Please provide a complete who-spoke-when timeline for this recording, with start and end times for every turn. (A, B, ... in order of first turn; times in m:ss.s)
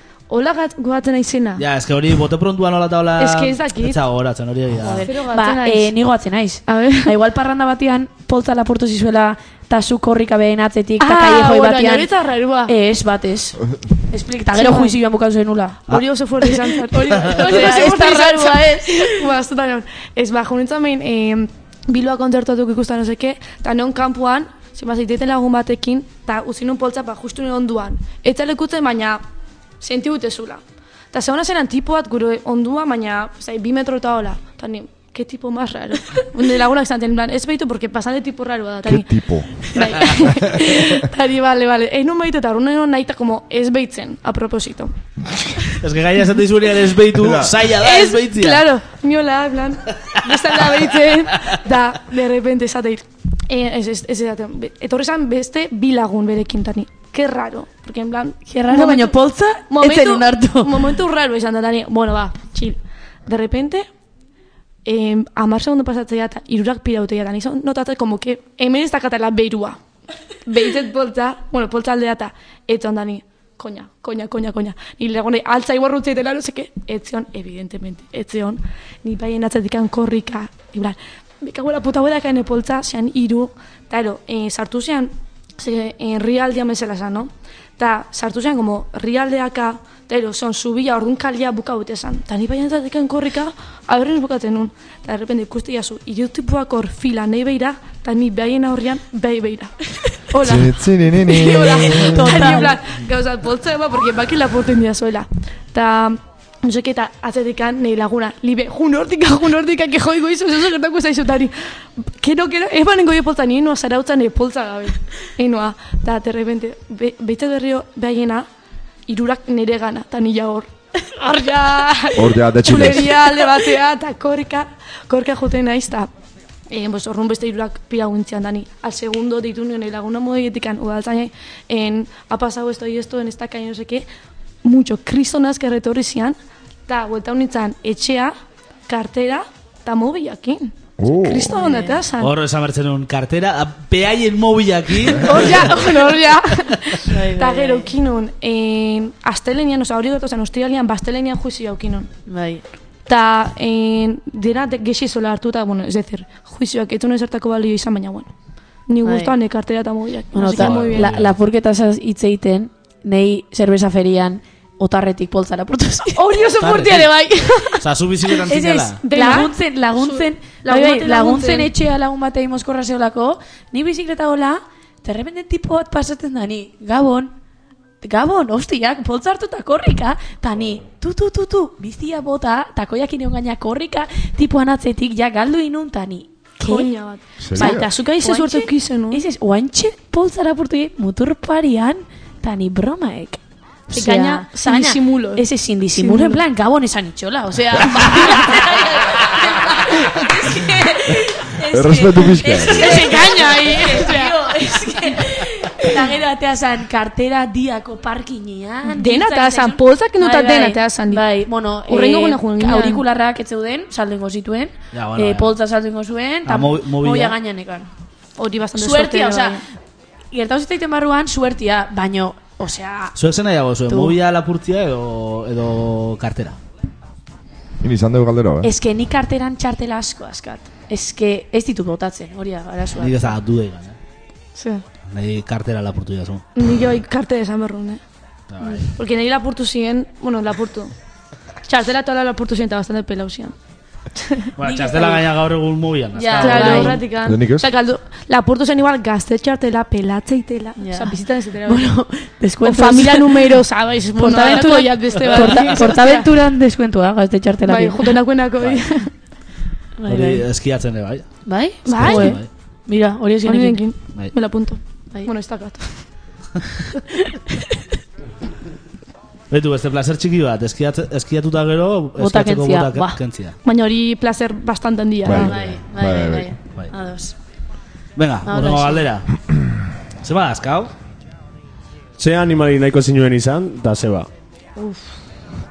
0:00.3-0:01.6 A
0:01.6-0:05.1 B
0:03.2-0:04.0 A
0:04.8-0:12.1 C
0:05.0-0:05.9 A
0:06.7-0:07.1 A
0:11.0-0:12.7 A
0:12.7-0:19.3 C
0:14.5-0:15.0 A
0:15.9-0:29.2 A
0:29.8-0:39.1 A
0:38.8-0:39.6 D
0:39.7-0:44.9 A
0:40.5-0:40.8 D
0:45.8-0:48.6 B
0:47.2-0:47.5 D
0:47.8-0:59.1 A
0:58.5-1:01.0 C
0:59.7-1:03.9 A
1:04.8-1:09.8 A
1:10.5-1:39.8 A
1:40.3-1:58.5 A
1:40.4-1:42.4 D
1:41.5-1:42.8 C
1:59.1-2:06.1 A
2:02.2-2:03.2 D
2:06.7-2:14.1 A
2:14.6-2:18.3 A
2:18.9-2:22.3 A
2:21.0-2:21.6 D
2:21.6-2:22.0 C
2:22.2-2:25.6 B
2:25.2-2:32.1 A
2:27.1-2:27.9 C
2:32.3-2:32.6 C
2:33.1-2:38.3 A
2:38.9-2:41.1 A
2:39.0-2:39.4 C
2:40.3-2:46.2 C
2:40.5-2:41.3 B
2:46.2-2:47.8 A
2:46.6-2:47.1 B
2:47.7-2:49.0 B
2:48.5-2:57.3 C
2:49.0-2:51.7 A
2:58.0-3:06.9 C
3:06.6-3:09.2 A
3:07.4-3:07.9 D
3:07.6-3:37.9 C
3:13.9-3:15.4 A
3:16.0-3:16.4 A
3:21.7-3:23.0 D
3:22.7-3:24.4 A
3:28.9-3:31.2 A
3:31.9-3:33.0 A
3:34.9-3:35.5 B
3:36.5-3:37.4 B
3:38.4-3:39.6 A
3:38.8-3:39.6 C
3:40.3-3:43.2 C
3:43.2-3:46.6 B
3:43.9-3:44.2 C
3:47.8-3:48.7 D
3:48.6-3:53.4 C
3:53.0-3:54.0 B
3:54.6-3:54.8 A
3:55.1-3:56.5 B
3:56.6-3:58.0 A
3:58.5-3:58.9 B
3:58.6-4:00.9 A
4:01.7-4:03.5 A
4:04.2-4:04.5 A
4:04.6-4:07.0 B
4:04.6-4:05.2 C
4:06.2-4:07.0 C
4:06.4-4:11.9 A
4:07.2-4:07.7 D
4:10.8-4:13.6 C
4:12.6-4:16.3 A
4:14.2-4:18.2 C
4:17.7-4:19.1 A
4:20.0-4:20.5 C
4:20.1-4:21.3 B
4:21.5-4:23.8 C
4:21.8-4:22.5 B
4:21.9-4:22.4 A
4:23.4-4:26.0 A
4:29.5-4:33.6 B
4:32.2-4:33.2 C
4:33.6-4:35.5 A
4:35.2-4:36.5 D
4:35.3-4:37.3 C
4:35.4-4:35.8 B
4:38.2-4:39.3 B
4:38.5-4:39.1 C
4:40.2-4:40.9 B
4:42.2-4:44.3 E
4:44.8-4:45.1 A